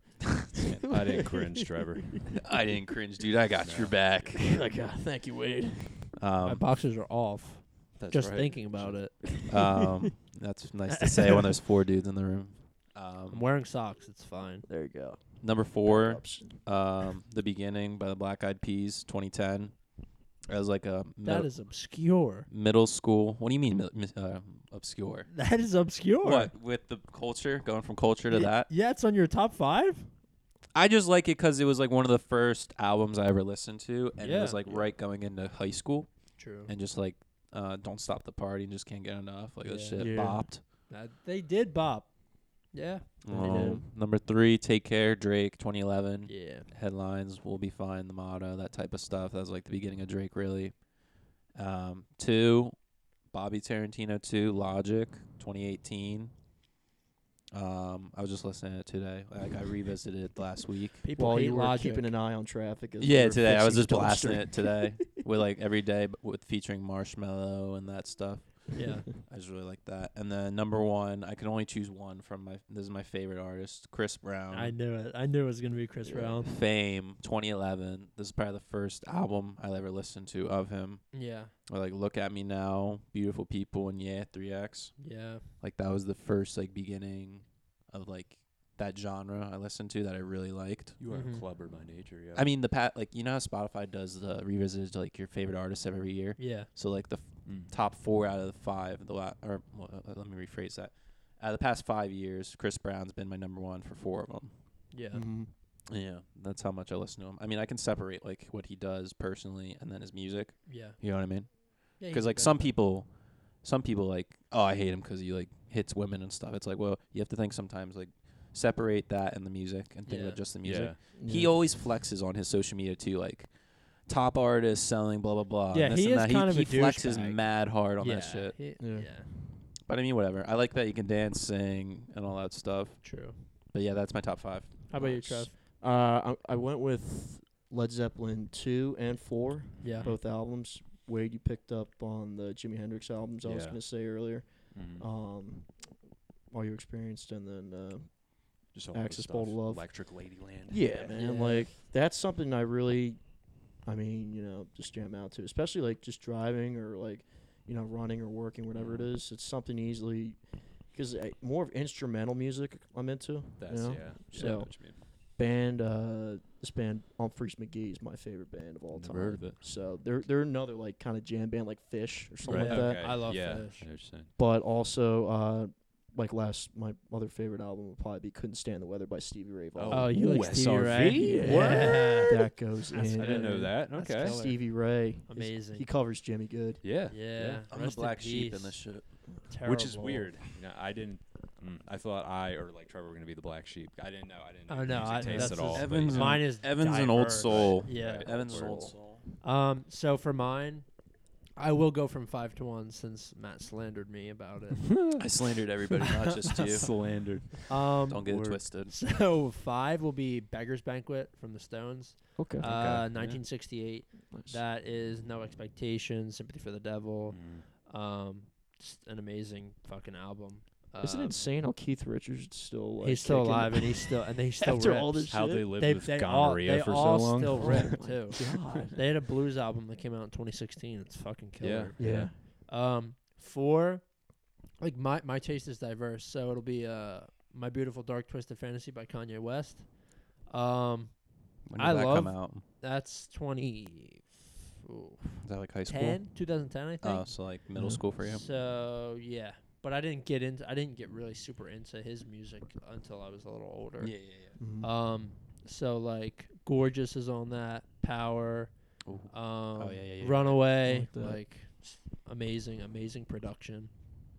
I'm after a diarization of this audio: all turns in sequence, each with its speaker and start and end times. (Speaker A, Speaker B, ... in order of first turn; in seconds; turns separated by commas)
Speaker A: 0.6-1.0, Speaker B: 0.9-2.2, Speaker C: 0.9-1.4, Speaker A: 2.4-4.6, Speaker B: 3.6-4.4, Speaker C: 4.4-6.2, Speaker A: 6.2-6.6, Speaker D: 6.4-9.4, Speaker B: 8.0-9.1, Speaker C: 9.4-9.8, Speaker A: 9.5-13.5, Speaker D: 10.9-11.4, Speaker D: 13.3-14.7, Speaker C: 14.7-16.6, Speaker A: 15.4-19.8, Speaker A: 20.4-21.6, Speaker D: 21.2-22.5, Speaker A: 22.5-25.4, Speaker D: 25.3-26.5, Speaker A: 26.2-28.7, Speaker D: 28.3-30.1, Speaker A: 30.7-40.6, Speaker D: 34.2-34.6, Speaker D: 36.4-36.7, Speaker D: 39.6-43.7, Speaker C: 40.0-40.5, Speaker A: 43.2-50.9, Speaker C: 43.3-43.9, Speaker D: 46.3-46.7, Speaker A: 51.5-52.8, Speaker A: 53.3-56.3, Speaker A: 57.5-61.0, Speaker D: 61.0-62.1, Speaker C: 61.1-65.0, Speaker A: 63.0-74.8, Speaker D: 68.7-69.1, Speaker D: 74.5-76.5, Speaker C: 76.0-76.4, Speaker A: 76.4-91.0, Speaker D: 81.1-81.5, Speaker D: 85.0-85.5, Speaker B: 91.0-92.5, Speaker D: 91.1-91.5, Speaker A: 92.3-104.6, Speaker D: 96.4-96.7, Speaker B: 97.4-97.7, Speaker D: 104.9-105.2, Speaker C: 105.1-105.5, Speaker A: 105.9-128.6, Speaker D: 110.7-112.8, Speaker D: 120.0-120.4, Speaker B: 120.6-121.0, Speaker C: 121.1-121.5, Speaker D: 125.7-129.3, Speaker C: 128.8-129.2, Speaker A: 129.8-134.8, Speaker D: 133.0-133.4, Speaker D: 134.9-135.5, Speaker C: 134.9-145.9, Speaker D: 139.8-140.1, Speaker B: 139.8-140.2, Speaker B: 143.4-143.8, Speaker B: 144.7-145.1, Speaker C: 146.5-180.2, Speaker B: 148.7-151.2, Speaker D: 151.1-151.7, Speaker B: 158.7-159.1, Speaker B: 163.6-165.0, Speaker D: 164.3-164.7, Speaker B: 168.9-169.6, Speaker D: 172.4-173.9, Speaker B: 172.4-174.3, Speaker B: 179.7-184.4, Speaker D: 179.9-182.4, Speaker C: 181.3-186.8, Speaker D: 182.9-185.9, Speaker B: 186.8-187.6, Speaker D: 187.1-189.0, Speaker A: 187.7-189.1, Speaker D: 189.5-190.3, Speaker B: 189.6-196.4, Speaker D: 194.7-198.8, Speaker C: 195.2-195.7, Speaker A: 195.7-199.2, Speaker B: 197.4-198.9, Speaker C: 198.6-198.9, Speaker D: 199.3-200.9, Speaker D: 201.6-204.9, Speaker A: 205.2-207.1, Speaker B: 206.7-207.7, Speaker D: 207.7-221.4, Speaker A: 208.1-209.0, Speaker C: 212.3-212.7, Speaker B: 212.6-213.4, Speaker C: 214.3-214.6, Speaker B: 217.3-217.7, Speaker C: 221.0-225.7, Speaker D: 223.0-234.2, Speaker B: 225.3-228.8, Speaker C: 227.5-229.0, Speaker B: 231.6-232.3, Speaker C: 232.0-232.3, Speaker D: 234.7-247.5, Speaker A: 241.7-242.6, Speaker A: 245.4-246.3, Speaker A: 247.0-248.4, Speaker C: 247.7-248.0, Speaker D: 248.2-258.7, Speaker A: 254.0-254.5, Speaker C: 254.6-254.9, Speaker A: 259.0-260.6, Speaker D: 259.3-263.9, Speaker C: 260.8-261.4